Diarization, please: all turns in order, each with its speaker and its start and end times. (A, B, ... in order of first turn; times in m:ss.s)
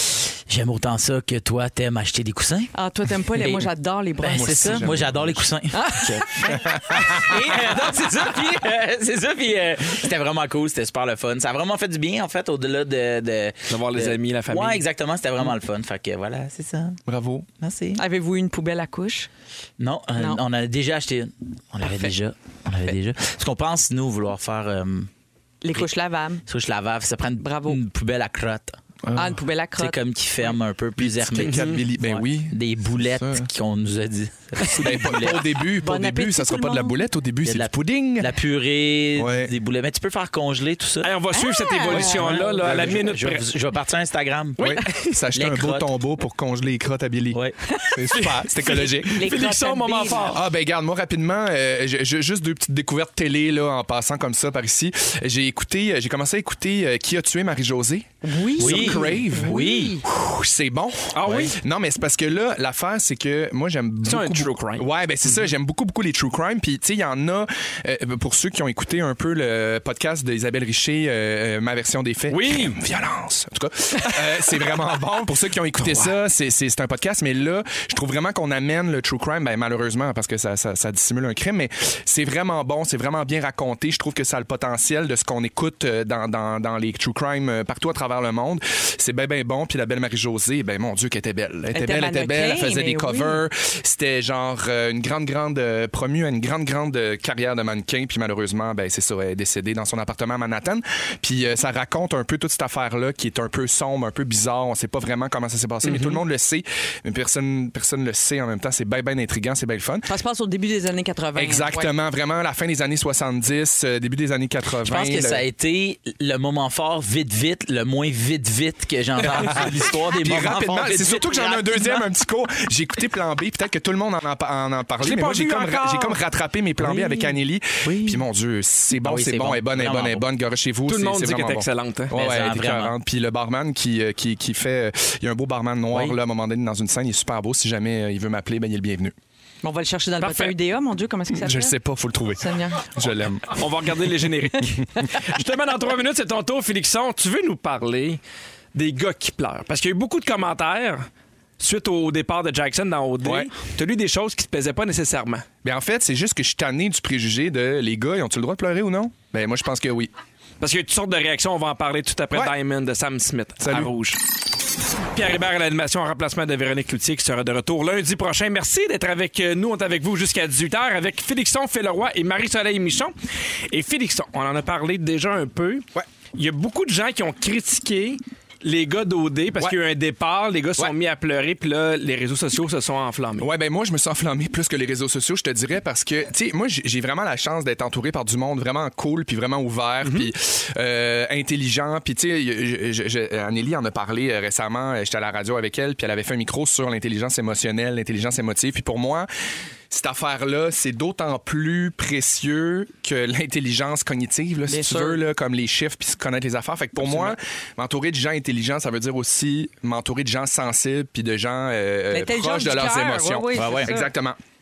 0:00.5-0:02.7 A
0:02.7-0:04.9 B
0:03.3-0:03.7 A
0:04.2-0:17.0 A
0:04.3-0:05.5 C
0:05.7-0:08.6 B
0:06.4-0:07.4 C
0:13.7-0:14.8 D
0:17.1-0:17.5 C
0:17.6-0:18.0 A
0:18.0-0:19.3 B
0:19.8-0:25.1 A
0:20.2-0:20.4 B
0:25.6-0:26.4 B
0:26.5-0:28.8 A
0:27.4-0:27.8 B
0:29.0-0:29.4 C
0:29.2-0:30.0 B
0:29.8-0:35.5 A
0:31.0-0:33.5 C
0:31.4-0:31.8 D
0:34.8-0:38.3 C
0:35.8-0:37.0 B
0:37.4-0:41.1 A
0:39.2-0:39.5 C
0:41.0-0:43.5 D
0:41.3-0:42.5 B
0:41.9-0:44.8 A
0:42.6-0:43.0 C
0:44.6-0:44.8 D
0:44.6-0:47.4 C
0:45.3-0:45.9 A
0:47.7-0:48.1 B
0:47.9-0:49.3 C
0:48.2-0:50.4 D
0:48.7-0:50.4 B
0:50.3-1:50.1 C
0:58.2-1:00.0 B
0:58.6-1:00.0 A
1:01.1-1:01.6 D
1:04.1-1:04.9 D
1:12.3-1:12.8 D
1:15.8-1:16.1 D
1:31.7-1:33.4 B
1:45.8-1:46.2 D
1:50.1-1:51.9 B
1:51.4-1:55.4 C
1:54.8-2:02.1 A
1:59.4-2:19.2 C
2:05.0-2:06.2 D
2:06.8-2:07.2 A
2:07.8-2:08.2 A
2:09.0-2:10.2 A
2:10.9-2:12.2 D
2:12.1-2:12.9 A
2:19.6-2:21.8 B
2:20.2-2:20.5 D
2:21.3-2:23.6 C
2:22.4-2:22.8 B
2:23.5-2:28.2 D
2:28.7-2:31.1 D
2:31.6-2:35.4 D
2:33.2-2:33.5 C
2:35.6-2:40.1 C
2:40.6-2:44.2 D
2:43.6-2:43.9 C
2:45.1-2:53.1 D
2:53.7-3:03.5 D
3:03.4-3:19.3 C
3:10.0-3:10.3 D
3:19.9-3:34.4 C
3:24.7-3:25.2 B
3:27.1-3:27.3 D
3:32.1-3:34.1 B
3:33.6-3:33.9 A